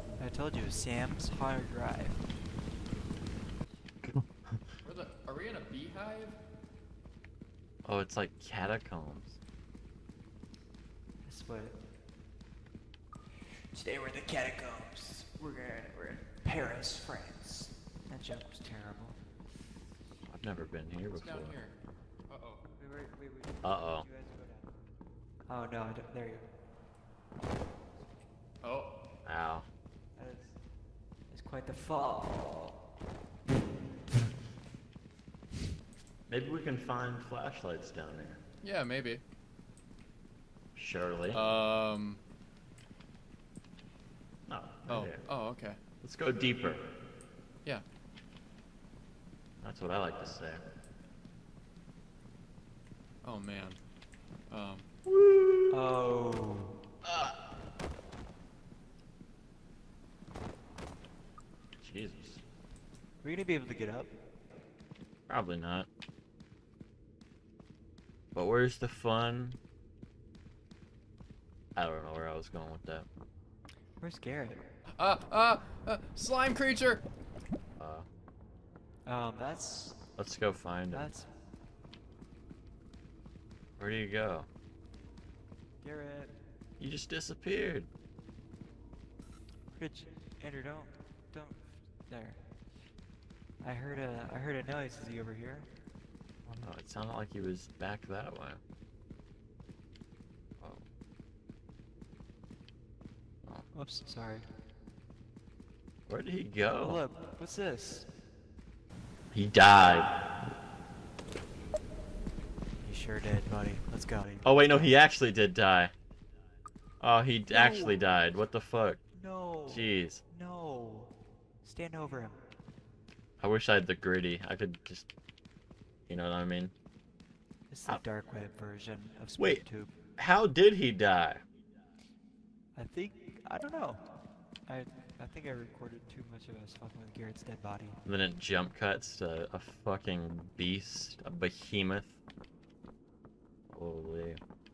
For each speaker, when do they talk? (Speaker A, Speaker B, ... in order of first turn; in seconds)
Speaker A: 0.2-2.2, 11.2-11.8, 13.5-19.2, 22.8-24.8, 25.5-26.5, 30.1-30.6, 31.3-32.8, 55.7-56.8, 63.2-64.1, 74.0-74.7, 79.0-80.0, 80.9-81.3, 85.8-86.4, 89.7-92.5, 93.6-95.7, 103.7-104.5, 106.8-108.1, 112.8-114.9, 117.5-117.9, 119.1-122.4, 127.7-129.9, 132.7-134.1, 134.7-138.0
Speaker B: 4.0-4.6, 7.8-9.4, 20.3-21.6, 23.6-24.1, 29.2-29.6, 36.3-38.4, 40.8-41.4, 44.5-45.2, 46.0-46.8, 49.6-50.6, 55.1-55.7, 57.0-57.4, 61.8-62.4, 65.3-65.9, 68.3-69.6, 71.8-73.1, 77.8-78.0, 80.2-81.1, 83.8-84.5, 86.8-87.9, 96.5-98.6, 100.6-100.8, 106.1-107.0, 109.3-110.2, 114.4-115.9, 117.0-119.0, 119.7-120.2, 123.4-125.1, 126.1-126.7, 129.4-129.6, 130.2-131.4, 138.1-142.2, 143.7-144.4
Speaker C: 4.8-6.4, 21.1-21.7, 22.3-22.6, 28.6-28.9, 38.6-39.2, 41.3-42.2, 44.9-45.8, 53.2-53.8, 54.5-54.9, 75.0-77.0